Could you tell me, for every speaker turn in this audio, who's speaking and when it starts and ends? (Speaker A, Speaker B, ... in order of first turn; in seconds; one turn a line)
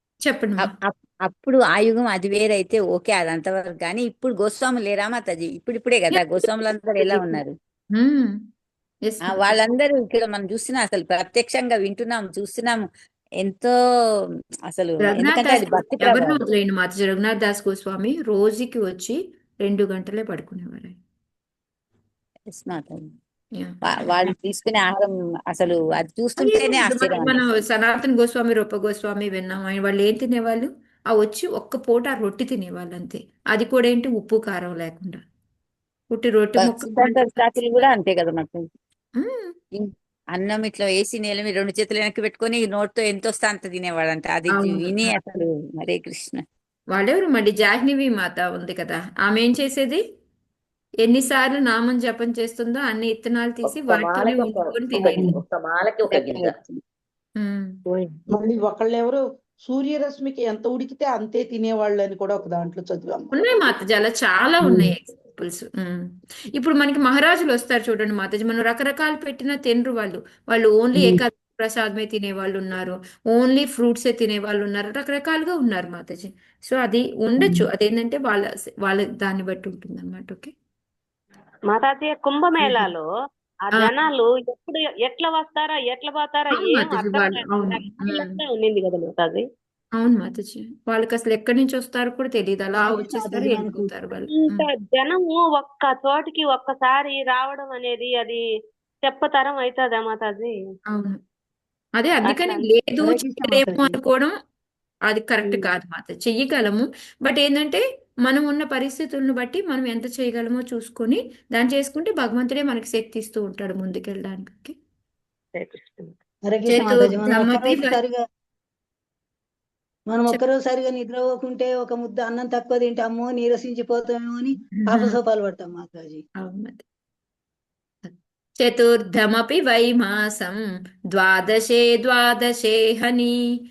Speaker A: 0.2-0.7
Speaker B: 0.6-7.6
Speaker A: 7.0-7.4
Speaker A: 8.0-8.4
Speaker A: 9.1-9.6
Speaker B: 9.3-12.9
Speaker B: 13.4-13.7
Speaker B: 14.7-16.4
Speaker A: 15.0-21.0
Speaker B: 22.5-23.1
Speaker A: 23.6-24.3
Speaker B: 23.9-27.4
Speaker A: 26.4-35.2
Speaker A: 36.1-37.6
Speaker B: 36.6-38.7
Speaker A: 39.2-39.5
Speaker B: 39.8-46.4
Speaker A: 44.5-45.2
Speaker A: 46.9-50.0
Speaker A: 51.0-55.4
Speaker C: 53.6-56.6
Speaker A: 57.4-57.8
Speaker D: 58.3-63.3
Speaker A: 63.3-80.5
Speaker E: 81.7-83.0
Speaker A: 82.6-82.9
Speaker E: 83.7-89.4
Speaker A: 86.5-88.4
Speaker A: 90.0-94.7
Speaker F: 92.8-93.9
Speaker E: 94.3-98.4
Speaker E: 99.0-100.5
Speaker A: 100.9-101.2
Speaker A: 102.0-104.3
Speaker E: 102.2-102.6
Speaker F: 103.0-104.0
Speaker A: 105.1-114.8
Speaker E: 115.5-116.1
Speaker F: 116.5-118.2
Speaker A: 116.7-118.0
Speaker F: 120.1-126.2
Speaker A: 124.8-125.2
Speaker A: 126.4-126.8
Speaker A: 128.0-130.6
Speaker A: 131.1-133.4